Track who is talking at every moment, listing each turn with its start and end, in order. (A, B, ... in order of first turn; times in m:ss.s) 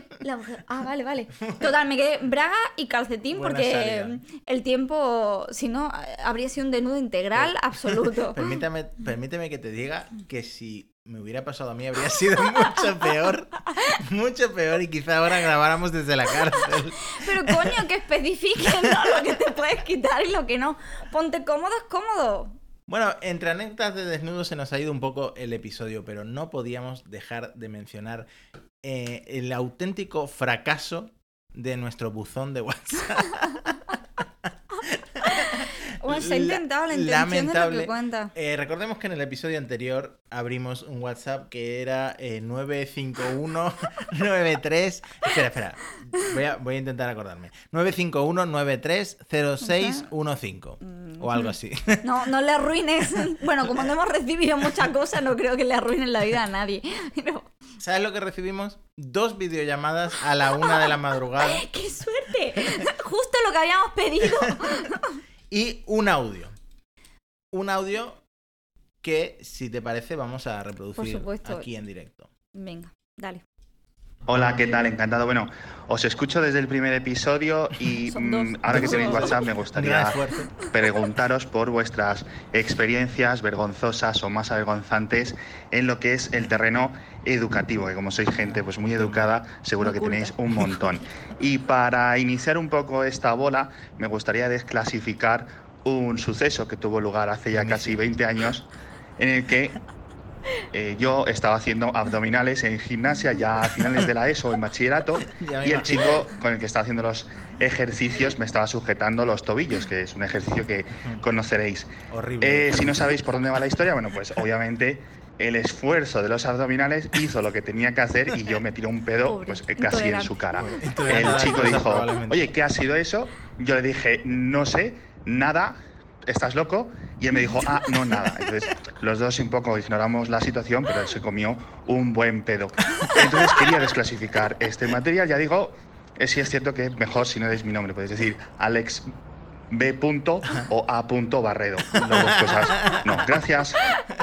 0:00.2-0:08.4 A
0:03.3-0:04.2 B
0:07.4-0:17.8 B
0:17.1-0:22.6 A
0:22.9-0:28.3 B
0:28.8-0:33.8 B
0:34.9-0:52.1 B
0:35.2-0:38.3 A
0:49.7-0:50.1 A
0:50.9-0:51.5 A
0:52.0-0:57.5 A
0:57.8-1:01.6 B
1:01.4-1:05.2 A
1:05.5-1:06.5 B
1:07.5-1:08.2 B
1:09.0-1:12.3 B
1:11.0-1:11.7 A
1:12.5-1:13.4 A
1:14.3-1:39.8 C
1:18.1-1:19.4 A
1:18.7-1:20.5 B
1:29.0-1:29.3 B
1:29.9-1:30.3 A
1:37.5-1:38.1 B
1:40.7-2:19.1 C
1:45.2-1:46.3 B
1:52.1-1:53.1 B
1:59.2-2:00.4 A
2:00.6-2:02.5 B
2:07.9-2:08.6 B
2:13.0-2:13.8 B
2:19.7-2:24.0 C
2:21.9-2:23.3 B